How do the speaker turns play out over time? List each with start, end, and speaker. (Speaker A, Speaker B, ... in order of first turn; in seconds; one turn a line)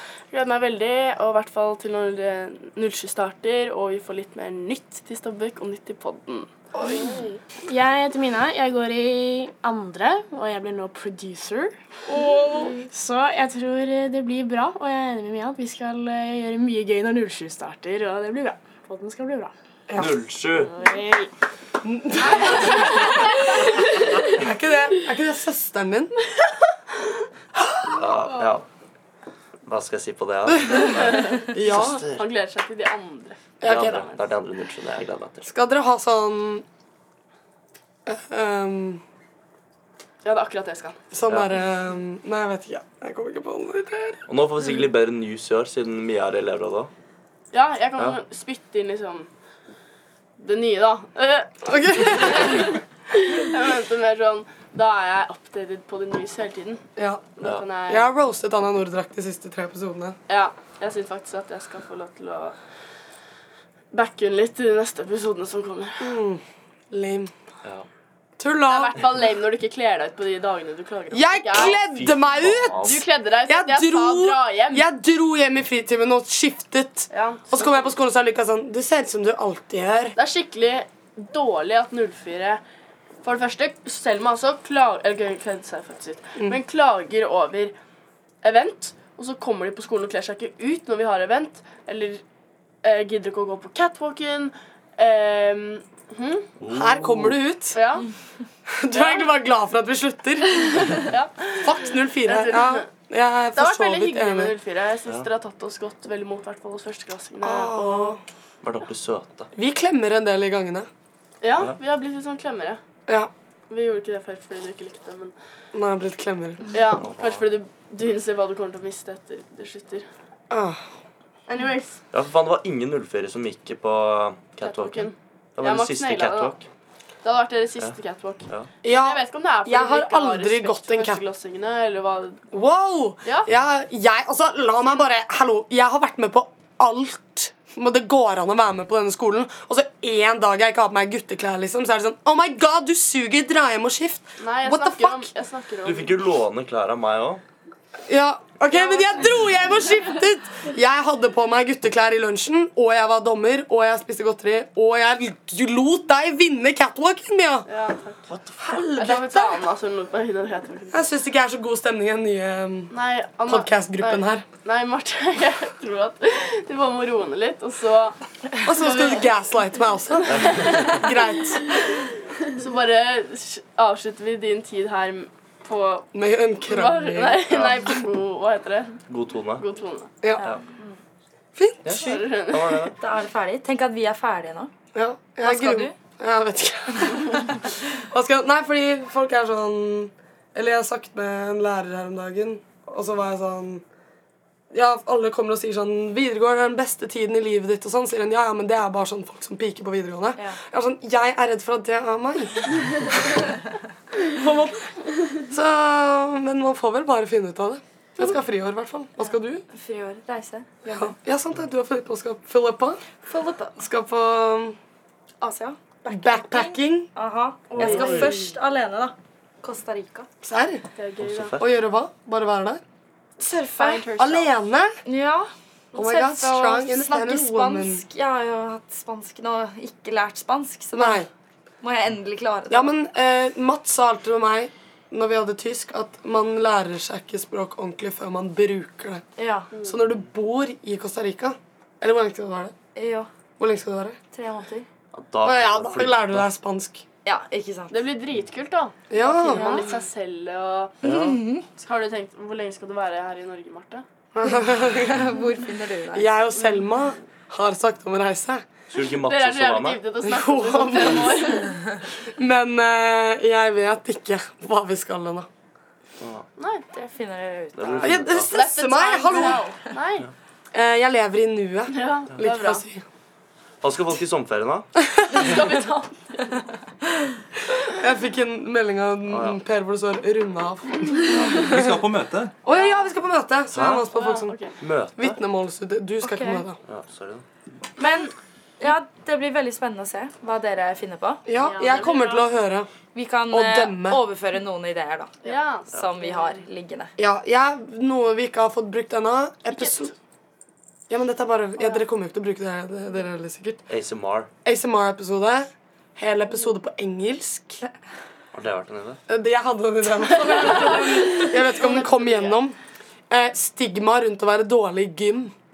Speaker A: 0.3-6.5
Speaker B: 6.8-7.1
Speaker C: 6.8-11.7
Speaker B: 12.1-12.8
Speaker C: 12.8-19.5
Speaker B: 19.9-20.2
Speaker D: 20.0-20.7
Speaker C: 20.5-21.3
Speaker B: 21.8-26.1
Speaker A: 22.4-22.9
Speaker D: 27.9-28.6
Speaker D: 29.7-32.2
Speaker A: 30.9-34.2
Speaker B: 31.5-32.1
Speaker B: 33.6-34.1
Speaker D: 33.6-35.4
Speaker B: 35.4-36.6
Speaker B: 38.1-39.0
Speaker A: 40.2-41.0
Speaker B: 41.1-44.2
Speaker D: 44.3-46.9
Speaker A: 47.5-49.3
Speaker A: 50.4-56.8
Speaker B: 51.6-52.7
Speaker B: 57.0-60.2
Speaker A: 57.4-58.1
Speaker A: 60.3-62.6
Speaker A: 63.9-66.1
Speaker B: 66.0-67.3
Speaker B: 68.4-69.0
Speaker A: 68.7-71.9
Speaker B: 71.1-80.2
Speaker D: 71.5-73.0
Speaker A: 72.8-74.9
Speaker A: 77.1-77.9
Speaker A: 80.2-82.6
Speaker A: 83.2-87.8
Speaker A: 88.4-92.2
Speaker A: 92.8-96.5
Speaker D: 96.6-97.4
Speaker B: 96.7-97.8
Speaker A: 97.7-98.1
Speaker B: 98.7-101.0
Speaker A: 98.9-99.3
Speaker A: 100.8-102.9
Speaker B: 101.6-104.5
Speaker A: 103.6-108.2
Speaker B: 107.4-108.2
Speaker D: 108.6-109.5
Speaker B: 109.5-110.9
Speaker A: 111.4-112.8
Speaker A: 113.7-115.3
Speaker B: 115.8-116.7
Speaker A: 116.7-120.1
Speaker D: 117.0-117.5
Speaker B: 120.5-120.8
Speaker A: 121.5-122.0
Speaker D: 122.1-126.6
Speaker A: 124.6-126.6
Speaker A: 127.2-132.4
Speaker B: 128.8-131.2
Speaker B: 132.5-145.3
Speaker A: 133.2-133.5
Speaker A: 144.4-146.2
Speaker D: 145.8-147.4
Speaker B: 148.1-157.7
Speaker A: 148.7-149.4
Speaker A: 157.7-158.2
Speaker D: 158.3-158.6
Speaker B: 158.6-159.6
Speaker A: 158.9-161.1
Speaker B: 160.9-162.9
Speaker A: 162.9-168.2
Speaker B: 163.5-164.5
Speaker B: 168.7-171.8
Speaker A: 168.7-169.3
Speaker D: 170.3-171.0
Speaker A: 170.4-170.9
Speaker A: 172.6-176.1
Speaker B: 176.1-177.4
Speaker A: 176.7-179.0
Speaker D: 177.5-178.0
Speaker D: 179.1-179.7
Speaker A: 179.6-180.1
Speaker B: 181.6-181.9
Speaker D: 181.8-183.0
Speaker A: 181.9-182.9
Speaker E: 183.0-184.7
Speaker B: 184.9-187.6
Speaker E: 185.4-185.9
Speaker B: 188.1-193.8
Speaker B: 194.7-202.7
Speaker B: 204.3-204.8
Speaker B: 205.5-209.6
Speaker E: 209.7-210.8
Speaker B: 210.8-213.1
Speaker E: 213.3-213.8
Speaker B: 213.8-214.8
Speaker E: 215.4-220.3
Speaker B: 216.1-217.1
Speaker A: 217.7-218.5
Speaker D: 217.8-218.3
Speaker B: 220.4-220.8
Speaker A: 221.0-221.6
Speaker D: 221.2-221.6
Speaker B: 221.6-222.8
Speaker A: 223.4-224.5
Speaker E: 223.4-224.0
Speaker B: 223.8-225.0
Speaker E: 225.1-231.3
Speaker B: 225.9-228.0
Speaker B: 230.9-231.3
Speaker E: 231.8-232.9
Speaker B: 232.7-239.2
Speaker E: 239.4-239.7
Speaker B: 239.8-242.8
Speaker E: 242.9-243.3
Speaker B: 243.6-244.2
Speaker E: 244.3-244.9
Speaker D: 245.1-246.5
Speaker B: 245.4-247.0
Speaker E: 247.2-248.1
Speaker A: 247.9-251.0
Speaker B: 249.1-249.8
Speaker E: 249.3-250.0
Speaker D: 251.0-251.4
Speaker E: 251.1-251.7
Speaker A: 251.8-254.0
Speaker B: 254.3-255.4
Speaker E: 254.6-256.4
Speaker B: 256.1-258.6
Speaker D: 258.9-260.0
Speaker A: 259.2-261.8
Speaker B: 260.3-261.8
Speaker B: 262.4-265.5
Speaker D: 266.2-266.5
Speaker A: 266.6-267.1
Speaker E: 266.9-268.3
Speaker D: 267.8-268.5
Speaker B: 268.0-269.6
Speaker A: 268.4-270.3
Speaker B: 270.7-273.0
Speaker A: 271.9-272.9
Speaker D: 273.8-274.9
Speaker B: 275.1-275.6
Speaker A: 275.3-276.6
Speaker B: 277.9-282.0
Speaker D: 279.3-279.6
Speaker D: 281.3-282.5
Speaker B: 282.6-284.6
Speaker D: 283.7-284.1
Speaker A: 284.1-284.8
Speaker D: 284.8-285.4
Speaker B: 285.2-286.8
Speaker E: 286.2-286.6
Speaker D: 286.9-287.4
Speaker E: 288.0-291.4
Speaker B: 291.5-292.9
Speaker A: 291.6-292.3
Speaker C: 291.6-292.4
Speaker E: 293.1-295.3
Speaker B: 293.5-294.2
Speaker A: 295.4-296.6
Speaker E: 295.9-297.1
Speaker B: 297.2-300.1
Speaker B: 301.1-303.8
Speaker D: 303.9-304.5
Speaker B: 304.6-307.8
Speaker D: 308.5-309.2
Speaker B: 309.3-312.8
Speaker A: 311.4-312.6
Speaker B: 313.3-315.5